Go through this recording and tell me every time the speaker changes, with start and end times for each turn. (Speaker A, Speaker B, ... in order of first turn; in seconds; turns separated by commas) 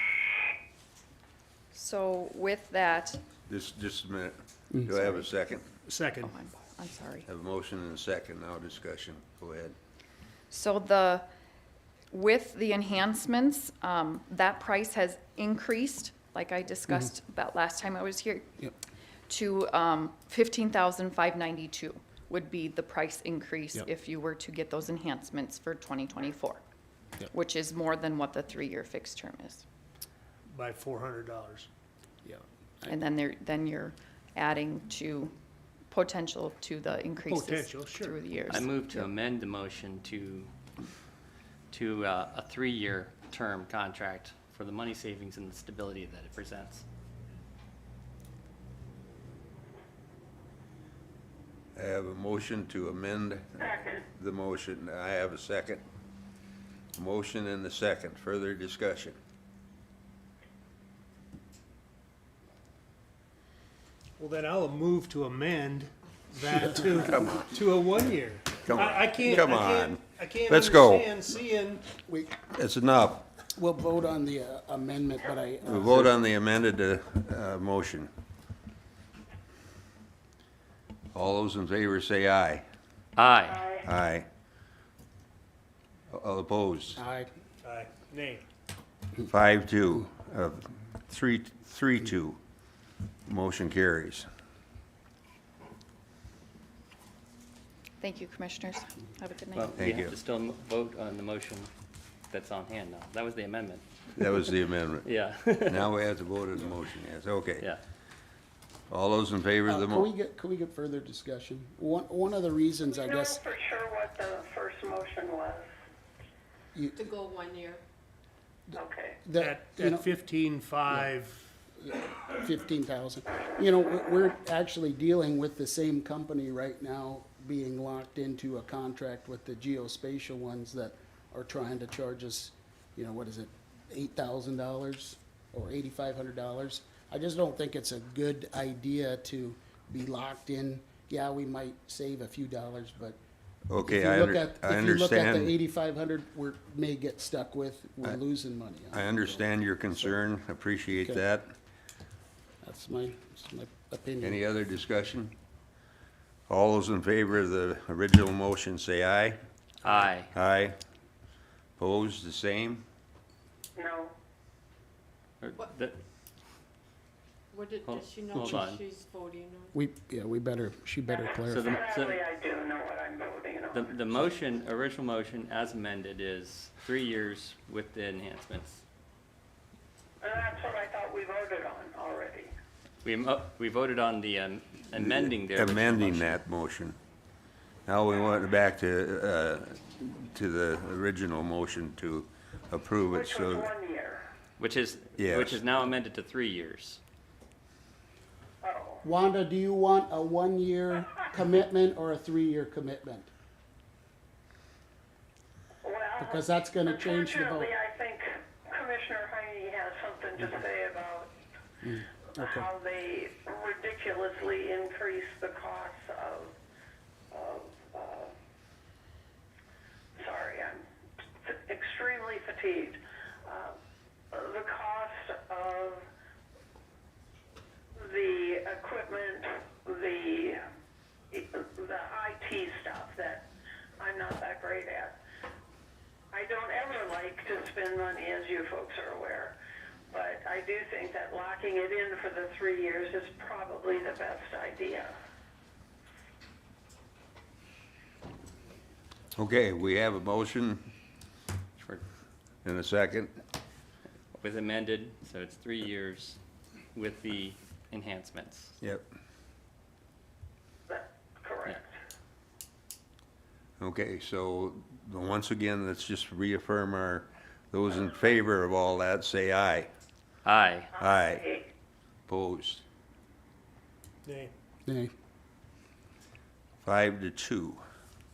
Speaker A: 1.7-3.2, Speaker B: 3.5-5.7, Speaker C: 5.8-6.4, Speaker A: 6.3-7.2, Speaker B: 7.3-9.8, Speaker A: 10.5-11.2, Speaker A: 12.1-18.6, Speaker A: 19.3-26.6, Speaker A: 27.3-29.6, Speaker C: 30.5-31.7, Speaker D: 32.2-33.0, Speaker A: 32.9-33.9, Speaker A: 34.7-35.3, Speaker A: 35.9-38.7, Speaker C: 37.2-38.3, Speaker E: 38.5-40.5, Speaker E: 41.7-46.9, Speaker B: 51.8-55.8, Speaker F: 53.6-54.0, Speaker B: 57.0-59.2, Speaker C: 64.2-72.0, Speaker B: 68.7-71.1, Speaker D: 72.1-72.4, Speaker B: 72.5-73.3, Speaker D: 73.6-76.1, Speaker B: 75.7-78.1, Speaker B: 81.1-82.7, Speaker E: 83.2-83.7, Speaker F: 83.4-83.9, Speaker B: 83.8-84.3, Speaker B: 86.1-87.0, Speaker D: 87.0-87.3, Speaker C: 87.6-88.5, Speaker B: 89.2-92.4, Speaker B: 93.3-94.3, Speaker A: 98.0-99.7, Speaker E: 99.5-101.7, Speaker B: 99.8-100.2, Speaker E: 102.3-103.8, Speaker B: 104.2-105.0, Speaker E: 105.0-105.9, Speaker B: 105.7-107.7, Speaker B: 108.9-110.1, Speaker D: 109.7-113.4, Speaker F: 112.9-115.7, Speaker D: 116.7-117.0, Speaker G: 117.0-117.8, Speaker D: 118.7-120.1, Speaker F: 118.8-119.2, Speaker C: 119.3-121.5, Speaker D: 121.8-143.2, Speaker B: 143.7-145.5, Speaker D: 143.8-150.2, Speaker B: 148.9-151.5, Speaker D: 151.0-151.2, Speaker D: 152.6-154.4, Speaker B: 154.2-155.3, Speaker B: 156.5-160.8, Speaker E: 159.8-160.3, Speaker B: 161.8-162.8, Speaker F: 163.8-164.1, Speaker E: 165.4-166.0, Speaker G: 167.5-169.8, Speaker E: 167.8-168.8, Speaker D: 169.7-171.8, Speaker F: 171.1-173.9, Speaker E: 171.5-172.2, Speaker E: 173.7-178.8, Speaker F: 180.2-182.5, Speaker E: 183.0-186.4, Speaker B: 184.9-187.0, Speaker B: 187.9-193.7, Speaker F: 193.1-194.2, Speaker E: 194.6-197.0, Speaker B: 195.2-195.6, Speaker F: 198.6-199.0, Speaker D: 199.0-203.3, Speaker F: 205.8-211.3, Speaker D: 206.2-207.7, Speaker D: 211.8-212.7, Speaker F: 212.4-216.6, Speaker F: 217.3-218.3, Speaker F: 220.2-220.8, Speaker F: 221.4-223.8, Speaker F: 224.3-226.0, Speaker F: 228.0-230.6, Speaker F: 231.3-233.5, Speaker F: 234.0-235.2, Speaker F: 236.3-239.6, Speaker F: 240.1-245.1, Speaker B: 249.4-250.9, Speaker E: 251.8-252.0, Speaker B: 252.7-253.3, Speaker E: 254.3-256.4, Speaker E: 256.9-258.8, Speaker F: 260.9-261.9, Speaker B: 263.8-269.9, Speaker E: 270.4-270.9, Speaker F: 271.0-271.6, Speaker B: 271.0-271.5, Speaker B: 272.3-272.8, Speaker C: 274.2-274.5, Speaker D: 274.9-275.1, Speaker B: 276.8-277.8